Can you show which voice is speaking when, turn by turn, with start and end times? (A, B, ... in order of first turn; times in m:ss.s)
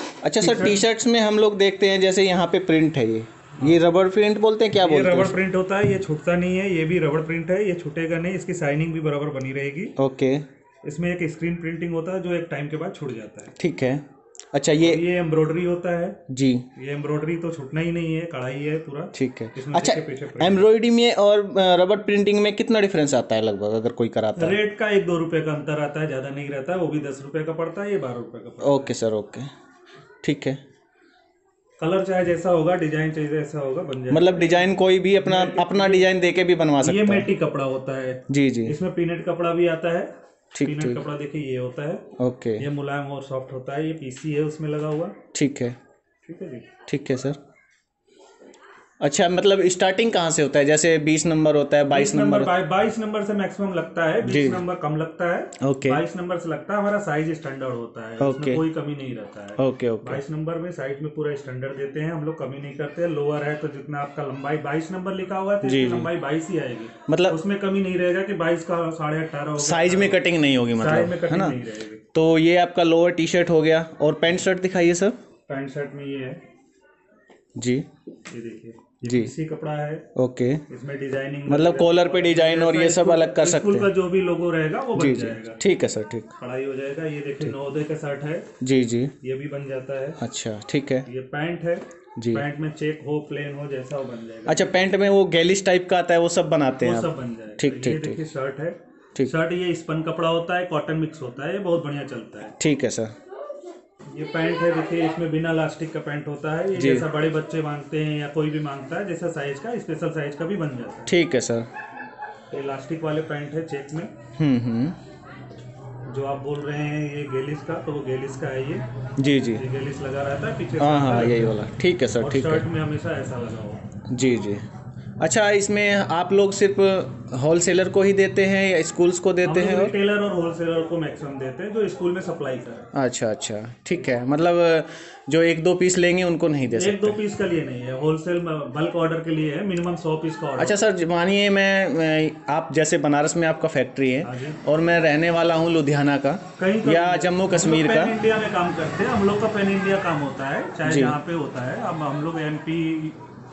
0:00.2-0:05.4 A
0:00.4-0:00.8 B
0:04.7-0:10.0 B
0:10.0-0:10.4 A
0:10.8-0:13.5 B
0:13.6-0:15.0 A
0:14.8-0:16.2 B
0:16.3-0:16.7 A
0:16.8-0:20.7 B
0:19.1-0:24.6 A
0:24.4-0:28.9 B
0:28.6-0:29.5 A
0:30.2-0:30.6 A
0:31.8-0:36.1 B
0:34.1-0:37.3 A
0:36.8-0:42.1 B
0:38.3-0:38.8 A
0:40.6-0:41.0 A
0:42.2-0:42.6 A
0:42.6-0:45.2 B
0:45.3-0:45.8 A
0:46.2-0:46.7 B
0:46.9-0:47.4 A
0:49.0-0:52.5 A
0:51.9-1:10.2 B
0:54.2-0:54.6 A
0:55.6-0:56.0 A
0:58.2-0:58.6 A
0:59.6-1:00.2 A
1:05.6-1:06.1 A
1:07.1-1:07.4 A
1:09.6-1:11.6 A
1:10.8-1:12.0 B
1:12.1-1:15.2 A
1:15.5-1:16.4 B
1:17.6-1:17.8 A
1:18.3-1:20.0 B
1:19.0-1:19.3 A
1:20.2-1:20.6 A
1:20.7-1:25.6 B
1:21.5-1:23.9 A
1:25.0-1:26.3 A
1:26.4-1:28.5 B
1:28.6-1:29.1 A
1:29.2-1:30.2 B
1:30.2-1:31.1 A
1:31.1-1:34.7 B
1:32.2-1:32.4 A
1:34.5-1:38.2 A
1:36.8-1:42.5 B
1:42.5-1:43.1 A
1:44.1-1:51.2 B
1:46.8-1:47.0 A
1:51.1-1:51.7 A
1:52.5-1:54.1 B
1:54.4-1:55.0 A
1:56.1-1:58.8 B
1:59.2-1:59.6 A
1:59.6-2:01.6 B
2:00.8-2:02.7 A
2:02.2-2:03.8 B
2:04.1-2:04.7 A
2:05.2-2:09.9 A
2:09.4-2:12.9 B
2:12.9-2:17.2 A
2:16.7-2:20.8 B
2:20.6-2:28.1 A
2:24.2-2:24.6 B
2:26.6-2:33.3 B
2:30.8-2:31.2 A